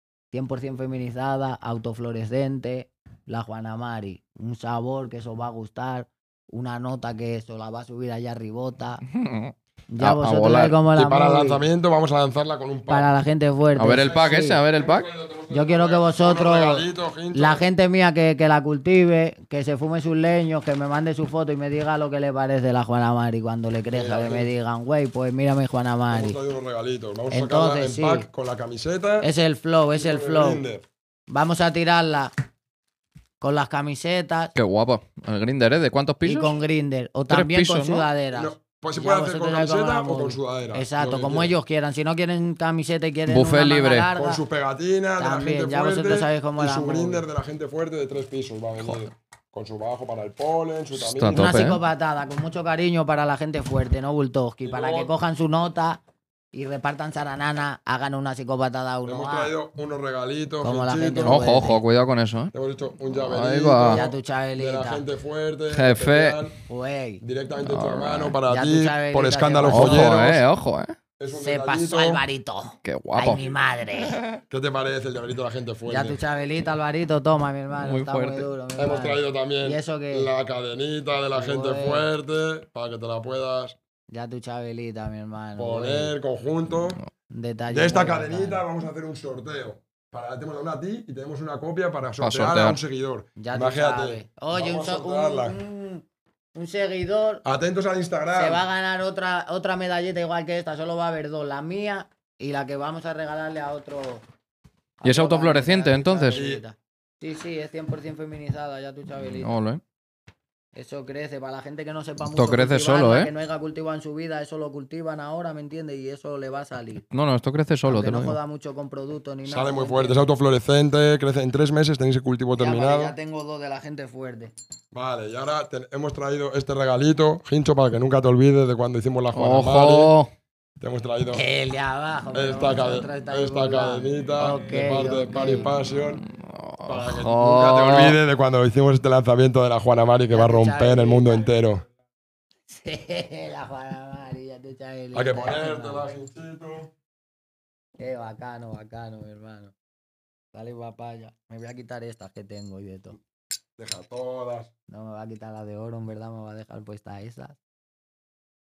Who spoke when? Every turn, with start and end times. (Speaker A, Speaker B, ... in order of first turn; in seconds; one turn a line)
Speaker A: 0.3-9.0
Speaker B: 9.1-10.8
Speaker A: 9.9-11.6
Speaker C: 10.9-13.1
Speaker A: 12.9-14.6
Speaker B: 13.8-15.1
Speaker C: 14.0-17.6
Speaker A: 15.5-26.4
Speaker C: 23.9-24.5
Speaker C: 26.1-29.3
Speaker A: 27.3-28.3
Speaker A: 29.2-30.6
Speaker C: 30.0-30.8
Speaker A: 31.3-32.3
Speaker A: 33.4-34.5
Speaker B: 34.5-36.5
Speaker A: 36.2-44.4
Speaker B: 37.3-38.1
Speaker C: 38.3-41.5
Speaker B: 43.3-44.1
Speaker C: 44.1-51.6
Speaker A: 45.2-47.2
Speaker B: 51.0-51.8
Speaker A: 51.3-56.0
Speaker C: 54.6-55.1
Speaker A: 56.5-59.5
Speaker C: 59.0-61.6
Speaker A: 60.6-61.8
Speaker B: 61.2-62.5
Speaker C: 62.5-66.6
Speaker B: 63.2-64.0
Speaker A: 63.8-65.0
Speaker B: 65.7-66.5
Speaker A: 66.7-67.2
Speaker C: 67.2-70.4
Speaker B: 67.6-68.4
Speaker A: 68.5-70.1
Speaker B: 69.7-71.0
Speaker C: 71.2-72.2
Speaker A: 71.3-74.2
Speaker B: 72.8-73.4
Speaker B: 74.0-74.4
Speaker C: 74.5-76.2
Speaker A: 75.9-80.3
Speaker B: 77.7-78.5
Speaker C: 78.8-83.8
Speaker A: 81.3-82.1
Speaker A: 84.1-86.1
Speaker C: 85.6-87.0
Speaker A: 87.3-88.6
Speaker C: 87.7-95.6
Speaker B: 92.2-92.8
Speaker A: 93.4-96.0
Speaker A: 96.5-97.4
Speaker C: 97.4-98.6
Speaker A: 98.3-104.2
Speaker A: 105.0-109.5
Speaker B: 105.0-106.4
Speaker C: 106.3-106.6
Speaker B: 109.4-109.8
Speaker A: 110.7-117.0
Speaker B: 112.2-113.3
Speaker B: 117.1-118.4
Speaker A: 117.8-120.2
Speaker C: 119.5-123.1
Speaker A: 122.5-124.5
Speaker C: 124.9-130.1
Speaker B: 129.3-130.3
Speaker C: 130.8-131.4
Speaker A: 131.3-135.7
Speaker C: 132.3-136.2
Speaker B: 136.3-138.2
Speaker C: 136.8-141.8
Speaker A: 140.3-141.5
Speaker A: 142.7-146.1
Speaker C: 145.1-146.9
Speaker A: 148.0-149.7
Speaker A: 150.5-153.2
Speaker C: 153.8-154.7
Speaker A: 154.9-157.6